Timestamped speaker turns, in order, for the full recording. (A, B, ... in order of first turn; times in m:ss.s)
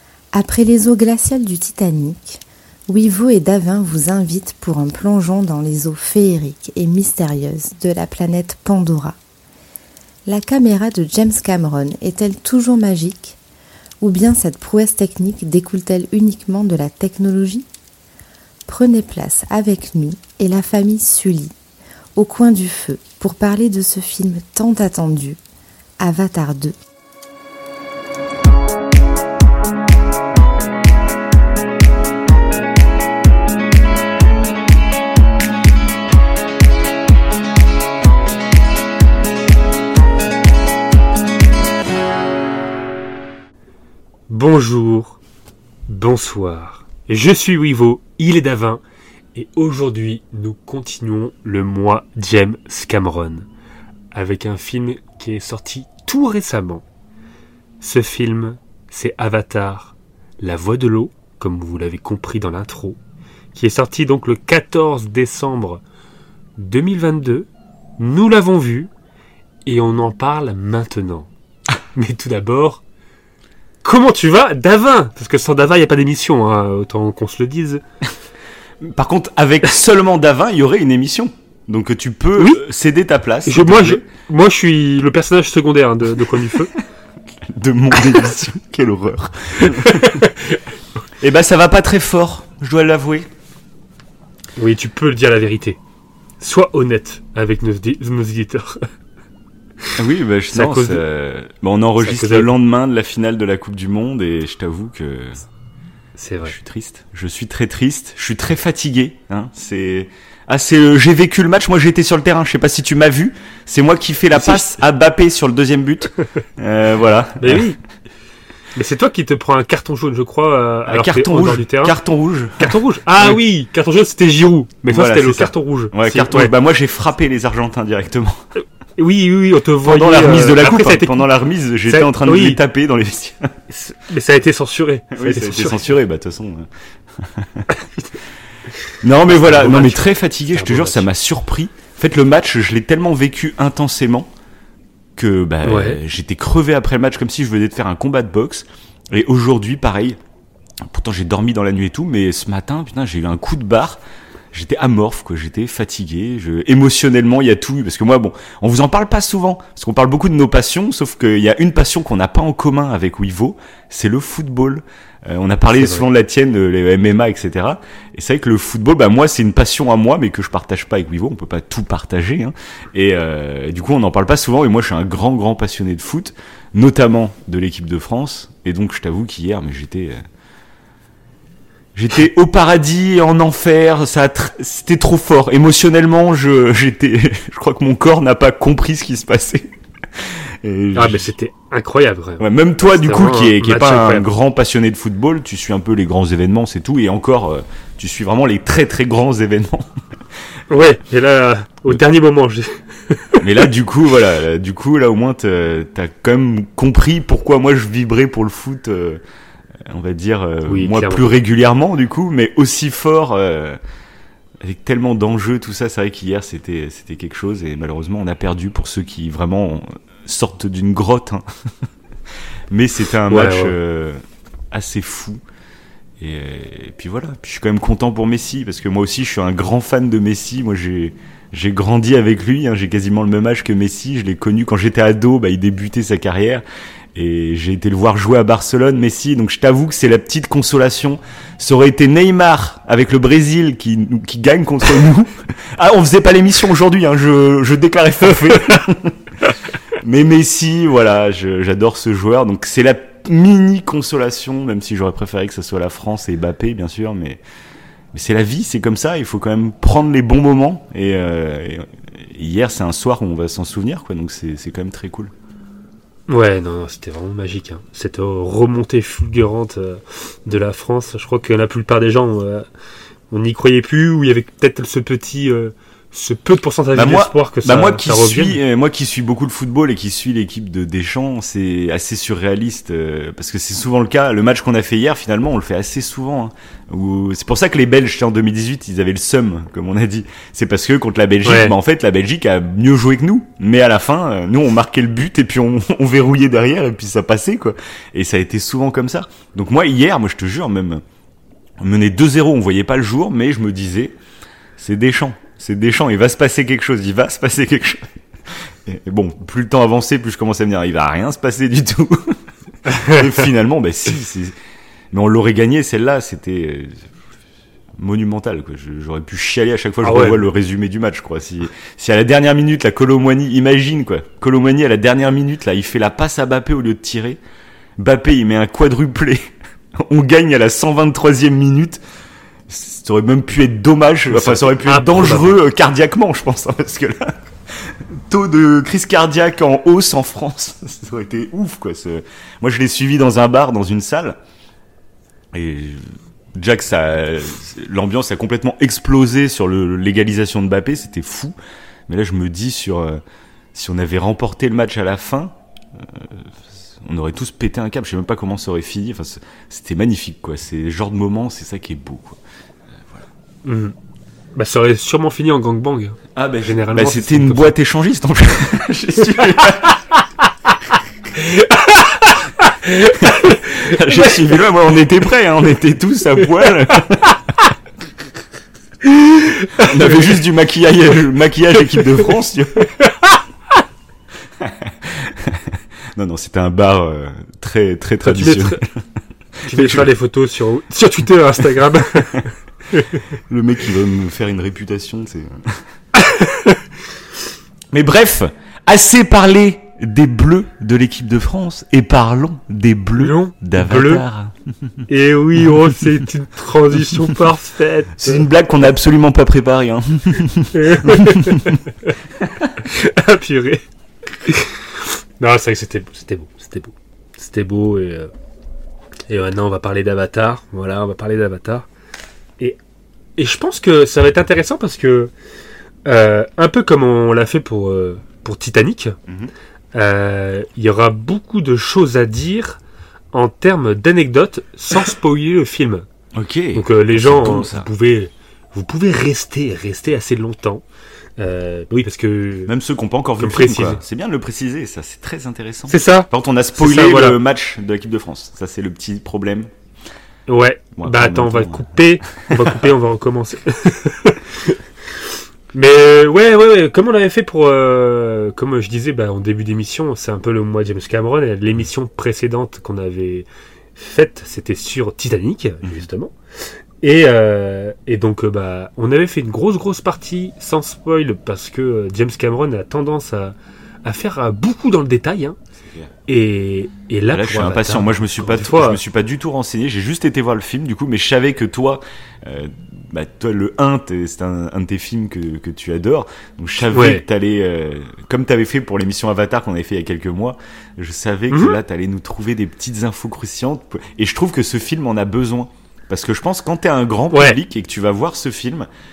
0:00.3-0:09.2 A
0:10.2-0:13.4 A
0:14.0-0:17.6 A
0:18.7-0:21.5 A
0:22.2-0:25.4 A
0:26.0-0:26.8 A
0:44.3-0:45.2 B
0:45.9-0:48.8 B
0:49.3-0:53.5 B
0:54.1-0:56.8 B
0:57.8-1:03.0 B
1:03.5-1:05.8 B
1:06.6-1:07.5 B
1:08.0-1:08.9 B
1:09.6-1:11.3 B
1:11.9-1:12.8 B
1:13.8-1:17.8 B
1:18.8-1:24.0 C
1:23.4-1:26.7 B
1:26.3-1:26.8 C
1:27.4-1:30.3 C
1:29.6-1:30.6 B
1:31.2-1:33.3 C
1:34.6-1:35.8 B
1:36.4-1:38.9 B
1:40.0-1:45.4 C
1:40.5-1:41.0 B
1:42.0-1:42.5 B
1:46.2-1:46.6 B
1:46.4-1:57.6 C
1:54.3-1:54.6 B
1:57.4-1:57.8 B
1:58.7-2:01.9 B
2:00.9-2:03.4 C
2:02.6-2:06.5 B
2:04.9-2:08.4 C
2:09.0-2:11.2 B
2:09.8-2:13.5 C
2:11.8-2:12.6 B
2:13.7-2:15.9 B
2:15.1-2:17.7 C
2:17.7-2:18.1 B
2:19.0-2:24.3 C
2:19.2-2:21.0 B
2:25.2-2:30.2 C
2:25.6-2:26.0 B
2:30.8-2:34.0 C
2:34.5-3:00.2 C
2:45.8-2:46.0 B
3:01.9-3:11.2 C
3:10.9-3:14.2 B
3:12.4-3:19.9 C
3:20.7-3:23.6 B
3:23.4-3:29.2 C
3:29.8-3:33.8 C
3:30.7-3:31.3 B
3:34.6-3:41.4 C
3:42.7-3:44.2 C
3:43.3-3:43.7 B
3:44.7-3:45.4 C
3:46.2-4:09.2 C
4:09.9-4:17.4 C
4:18.1-4:25.3 C
4:26.3-4:32.6 B
4:33.3-4:38.6 B
4:36.9-5:01.0 C
4:51.4-4:51.7 B
5:01.8-5:04.1 C
5:04.8-5:14.5 C
5:12.9-5:13.1 B
5:15.1-5:17.0 C
5:18.0-5:27.4 C
5:20.0-5:20.4 B
5:28.0-5:32.0 C
5:32.7-5:44.4 C
5:34.3-5:35.5 B
5:45.5-5:51.5 C
5:52.1-5:53.2 C
5:53.7-6:02.4 C
6:02.9-6:03.2 C
6:03.6-6:03.9 B
6:04.5-6:07.7 B
6:06.3-6:10.0 C
6:09.5-6:09.9 B
6:11.3-6:14.6 B
6:13.0-6:17.6 C
6:19.0-6:20.2 B
6:19.8-6:22.9 C
6:24.6-6:28.9 C
6:28.2-6:28.8 B
6:29.6-6:30.1 C
6:29.6-6:33.2 B
6:33.5-6:35.8 C
6:36.1-6:36.8 B
6:37.9-6:45.0 C
6:43.2-6:44.2 B
6:45.1-6:48.4 B
6:48.2-6:51.8 C
6:50.7-6:52.2 B
6:52.8-6:53.8 B
6:54.4-6:58.3 B
6:59.3-7:01.9 B
7:03.4-7:05.3 B
7:06.0-7:09.2 B
7:09.3-7:09.5 C
7:09.9-7:12.8 B
7:13.3-7:16.0 B
7:16.3-7:17.9 C
7:16.7-7:20.8 B
7:21.4-7:22.7 B
7:22.7-7:29.7 C
7:23.4-7:24.0 B
7:25.9-7:27.4 B
7:30.5-7:34.8 B
7:31.0-7:32.8 C
7:35.7-7:46.3 B
7:47.0-7:55.6 B
7:55.8-7:56.1 C
7:56.3-7:59.0 B
7:57.3-8:18.9 C
8:06.9-8:07.2 B
8:11.5-8:11.8 B
8:17.3-8:17.6 B